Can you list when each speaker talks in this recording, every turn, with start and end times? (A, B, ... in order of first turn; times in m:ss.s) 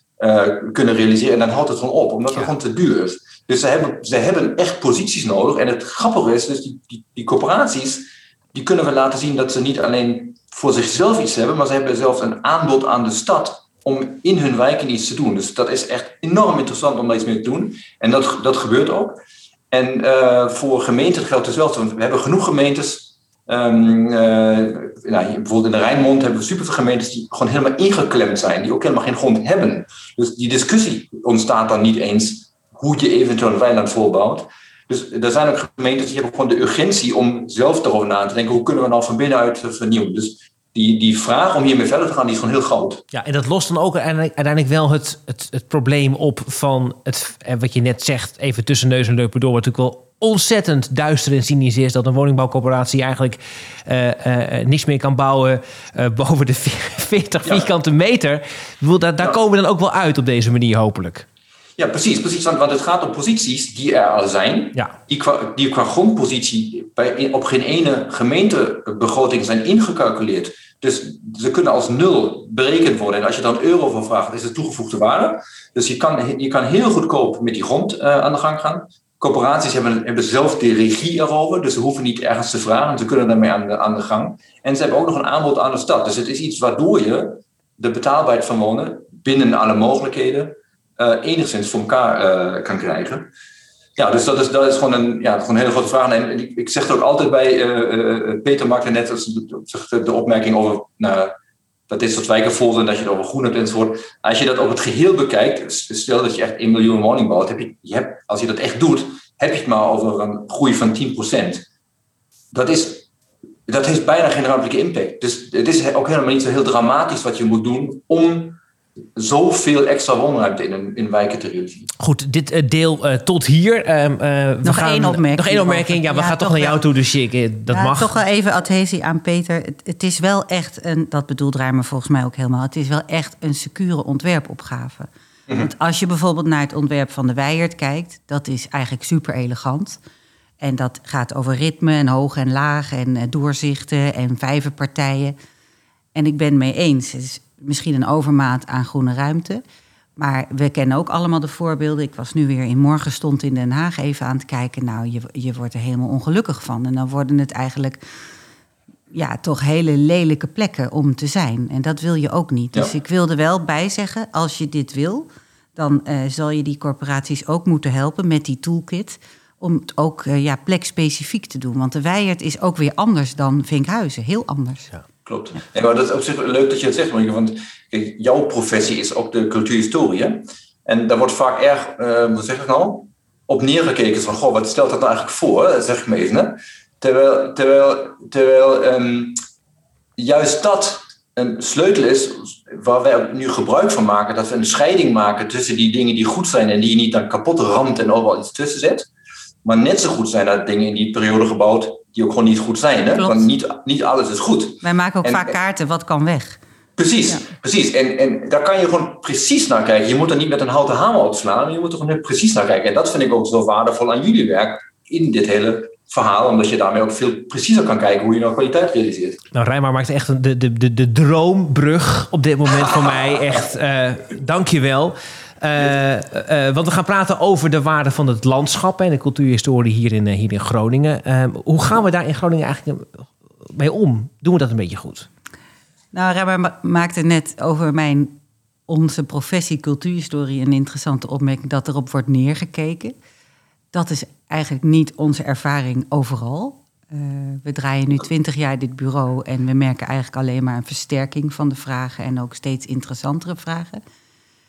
0:00.2-0:19.2 A
0:19.7-0:43.0 A
0:43.1-1:01.2 B
0:57.4-0:57.7 A
1:01.8-1:33.3 A
1:34.0-1:41.3 A
1:41.9-1:51.6 A
1:52.5-1:53.1 A
1:53.7-1:58.6 A
1:59.2-2:01.9 A
2:02.0-2:08.1 B
2:04.6-2:06.8 C
2:07.7-2:20.0 C
2:20.6-2:25.3 C
2:26.1-2:29.6 C
2:30.2-2:38.0 C
2:39.1-2:54.9 C
2:55.2-3:09.4 A
3:10.2-3:19.1 A
3:19.6-3:25.5 A
3:23.2-3:23.4 C
3:24.8-3:26.6 C
3:27.0-3:39.4 A
3:39.5-3:55.3 B
3:56.1-3:58.4 C
3:58.9-4:03.2 C
4:03.9-4:14.0 C